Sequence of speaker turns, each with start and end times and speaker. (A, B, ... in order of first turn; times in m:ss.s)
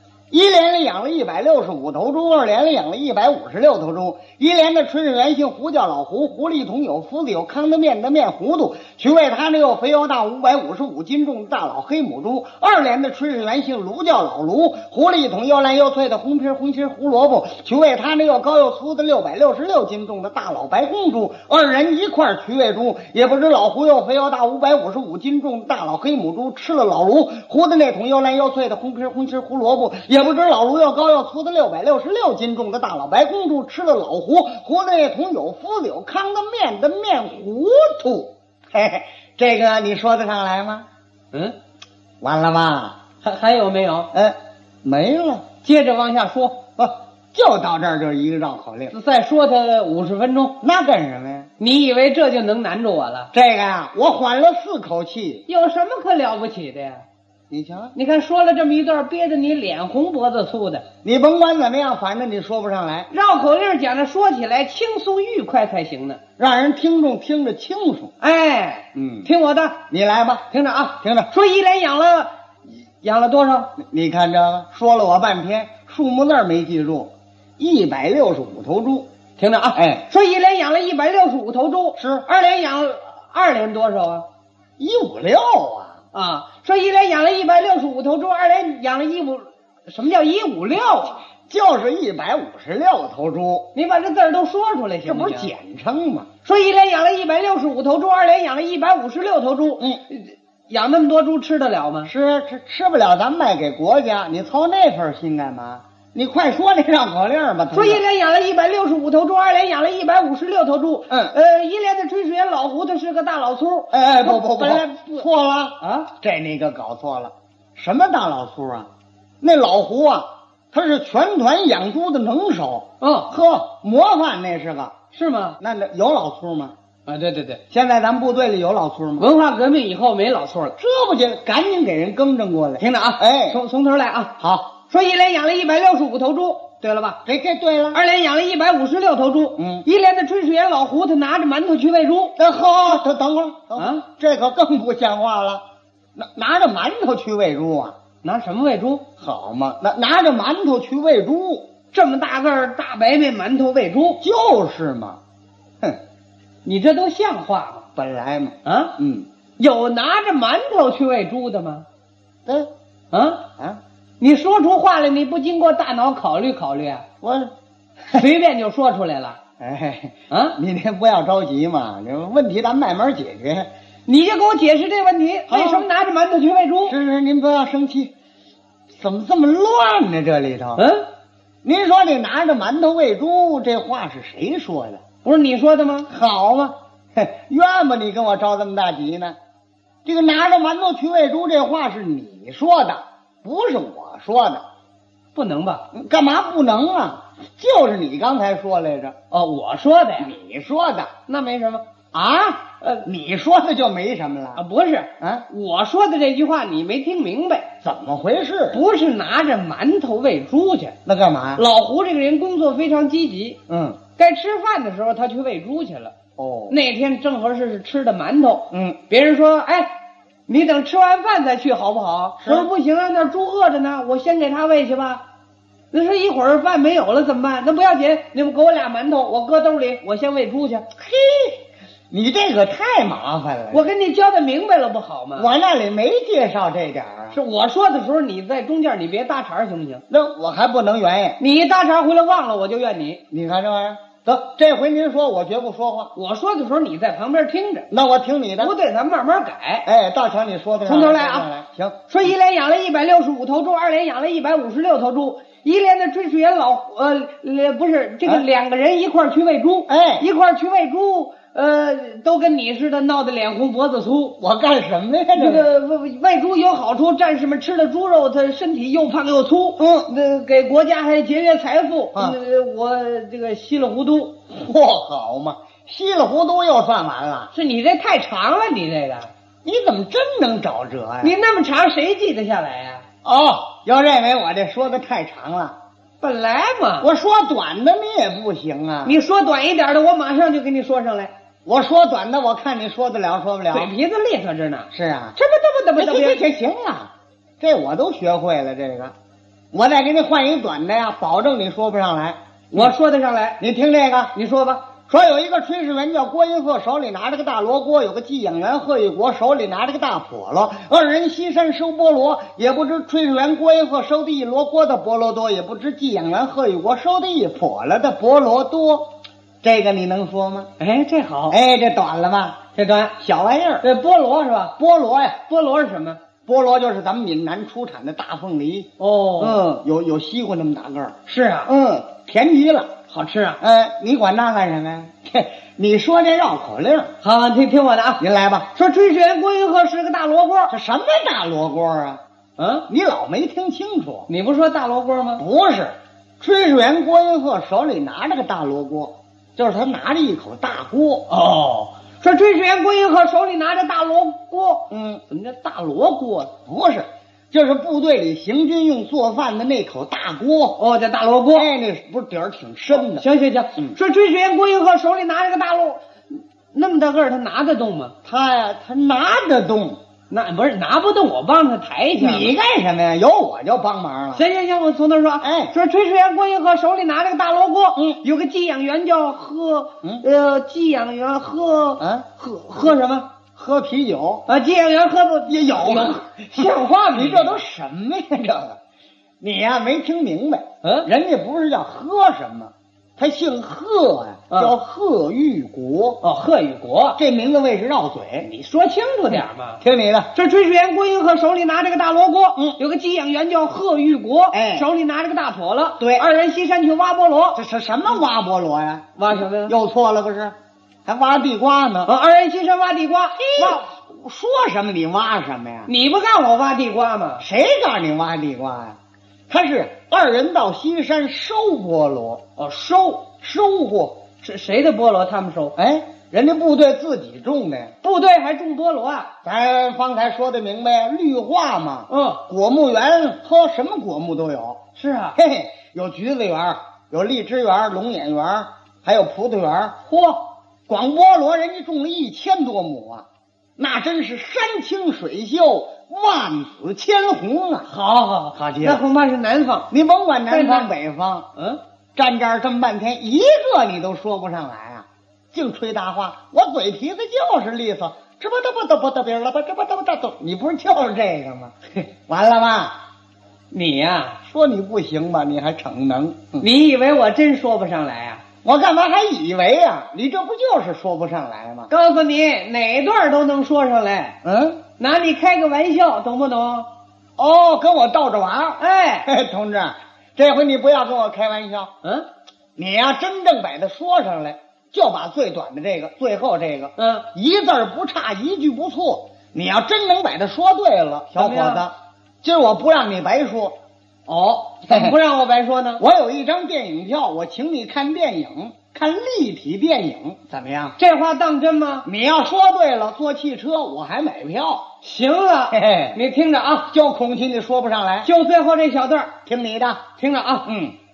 0:00.3-0:40.8 A
0:42.2-0:43.0 A
0:43.2-0:44.1 B
0:44.1-0:45.4 A
0:45.6-0:46.6 B
0:46.8-0:48.9 A
0:48.9-0:50.6 B
0:50.6-0:51.5 A
0:51.6-0:53.3 B
0:53.3-0:55.4 A
0:55.5-0:57.0 B
0:57.5-0:57.9 A
0:57.9-1:00.8 B
1:01.0-1:03.1 A
1:03.1-1:06.2 B
1:06.4-1:08.1 A
1:08.2-1:09.8 B
1:08.9-1:09.3 A
1:09.9-1:10.4 A
1:10.5-1:12.3 B
1:11.0-1:11.3 A
1:13.0-1:13.7 B
1:13.8-1:19.1 A
1:19.4-1:24.2 B
1:19.7-1:20.0 A
1:22.0-1:22.2 A
1:24.8-1:26.0 A
1:26.1-1:31.2 B
1:31.5-1:33.7 A
1:33.7-1:35.5 B
1:35.0-1:36.3 A
1:36.4-1:42.1 B
1:42.0-1:48.0 A
1:47.7-1:55.3 B
1:53.9-1:58.9 A
1:55.8-1:56.1 B
1:59.4-2:04.9 A
2:03.0-2:03.3 B
2:05.1-2:05.6 B
2:05.6-2:06.7 A
2:07.1-2:07.6 B
2:07.7-2:09.3 A
2:09.2-2:10.8 B
2:10.8-2:13.6 A
2:12.8-2:14.3 B
2:14.4-2:14.7 A
2:14.9-2:17.2 B
2:17.2-2:18.0 A
2:17.9-2:22.3 B
2:19.6-2:19.8 A
2:22.4-2:25.6 A
2:23.8-2:24.0 B
2:26.2-2:27.9 A
2:28.2-2:29.0 B
2:29.2-2:31.7 A
2:31.9-2:34.2 B
2:34.2-2:35.2 A
2:36.6-2:37.8 B
2:38.0-2:39.3 A
2:38.6-2:38.9 B
2:39.6-2:41.8 B
2:43.1-2:43.4 B
2:44.2-2:47.0 B
2:47.2-2:47.5 A
2:48.1-2:49.4 B
2:49.6-2:53.7 A
2:50.3-2:50.6 B
2:54.1-2:57.0 B
2:55.5-2:55.9 A
2:56.8-2:58.1 A
2:58.9-3:00.8 A
3:00.8-3:01.0 B
3:01.6-3:05.0 A
3:05.2-3:06.1 B
3:06.1-3:09.4 A
3:10.0-3:14.6 A
3:15.3-3:15.8 B
3:15.9-3:19.1 A
3:19.3-3:20.3 B
3:20.2-3:21.1 A
3:21.3-3:21.8 B
3:22.1-3:24.6 A
3:22.8-3:23.0 B
3:24.6-3:27.7 B
3:25.2-3:25.4 A
3:27.8-3:28.8 A
3:28.7-3:31.0 B
3:31.0-3:31.6 A
3:31.6-3:33.6 B
3:33.7-3:34.0 A
3:34.2-3:36.1 B
3:36.4-3:36.8 A
3:36.7-3:39.9 B
3:38.7-3:39.0 A
3:40.5-3:45.2 B
3:42.4-3:42.7 A
3:45.9-3:50.8 B
3:51.0-3:51.6 A
3:52.1-3:53.8 A
3:53.7-3:55.5 B
3:55.4-3:57.4 A
3:57.3-4:00.0 B
4:00.1-4:01.4 A
4:01.4-4:03.2 B
4:03.3-4:06.1 A
4:06.1-4:07.9 B
4:07.9-4:08.7 A
4:08.6-4:09.8 B
4:09.8-4:12.0 A
4:10.8-4:11.5 B
4:12.1-4:24.4 B
4:19.9-4:20.3 A
4:24.4-4:25.7 A
4:25.3-4:34.4 B
4:29.8-4:30.1 A
4:34.5-4:37.5 A
4:37.5-4:39.3 B
4:39.6-4:41.3 A
4:41.2-4:43.0 B
4:43.2-4:45.8 A
4:46.2-4:47.1 B
4:47.0-4:49.2 A
4:49.0-4:51.3 B
4:51.6-4:53.9 A
4:53.7-4:56.4 B
4:54.9-4:55.4 A
4:56.0-4:57.1 A
4:57.6-4:59.1 A
4:59.7-5:02.9 A
5:02.7-5:03.6 B
5:03.6-5:04.4 A
5:04.3-5:04.9 B
5:05.1-5:19.1 A
5:19.6-5:20.7 A
5:20.8-5:21.6 B
5:21.5-5:22.6 A
5:22.8-5:23.1 B
5:23.2-5:23.8 A
5:23.8-5:24.8 B
5:24.8-5:25.4 A
5:25.5-5:26.2 B
5:26.5-5:32.9 A
5:29.0-5:29.6 B
5:31.3-5:31.7 B
5:33.1-5:33.6 B
5:33.6-5:37.1 A
5:37.2-5:38.2 B
5:38.2-5:38.7 A
5:38.7-5:40.7 B
5:40.7-5:42.2 A
5:42.6-5:42.9 B
5:42.9-5:44.3 A
5:44.3-5:45.4 B
5:45.4-5:51.3 A
5:51.3-5:56.5 B
5:54.9-5:55.2 A
5:56.7-6:00.8 A
6:00.8-6:01.7 B
6:01.5-6:03.2 A
6:02.9-6:08.1 B
6:08.2-6:10.0 A
6:10.3-6:12.5 B
6:12.2-6:14.4 A
6:14.3-6:23.3 B
6:15.4-6:15.7 A
6:22.0-6:22.2 A
6:23.5-6:24.5 A
6:24.5-6:27.6 B
6:25.5-6:28.8 A
6:29.4-6:36.2 A
6:30.8-6:31.1 B
6:36.2-6:37.2 B
6:37.2-6:38.5 A
6:38.4-6:39.8 B
6:39.8-6:40.3 A
6:40.3-6:47.6 B
6:44.5-6:44.9 A
6:46.0-6:46.3 A
6:47.6-6:50.5 A
6:49.2-6:49.7 B
6:51.0-6:52.1 A
6:52.0-6:53.8 B
6:53.5-6:55.9 A
6:55.9-6:57.4 B
6:57.4-6:59.0 A
6:59.5-7:02.4 A
7:02.6-7:03.3 B
7:03.4-7:04.2 A
7:04.4-7:05.7 B
7:05.8-7:07.9 A
7:08.0-7:09.3 B
7:09.4-7:14.8 A
7:12.1-7:12.4 B
7:15.0-7:15.4 B
7:15.4-7:20.0 A
7:20.1-7:20.4 B
7:20.9-7:23.2 A
7:23.8-7:27.9 A
7:27.9-7:29.9 B
7:28.6-7:29.0 A
7:29.9-7:31.5 A
7:30.5-7:30.9 B
7:32.2-7:43.0 A
7:43.7-7:44.4 B
7:44.5-7:46.6 A
7:46.6-7:48.4 B
7:48.6-7:51.9 A
7:51.9-7:54.4 B
7:54.4-7:54.8 A
7:55.0-7:56.9 B
7:57.4-8:01.9 A
7:58.8-7:59.3 B
8:02.8-8:13.8 A
8:07.0-8:07.2 B
8:11.3-8:11.8 B
8:14.3-8:16.0 B
8:16.0-8:21.0 A
8:21.0-8:22.1 B
8:22.0-8:24.8 A
8:25.0-8:26.9 B
8:25.7-8:26.2 A
8:26.9-8:28.3 A
8:28.2-8:29.3 B
8:29.4-8:30.0 A
8:30.2-8:30.7 B
8:30.6-8:30.9 A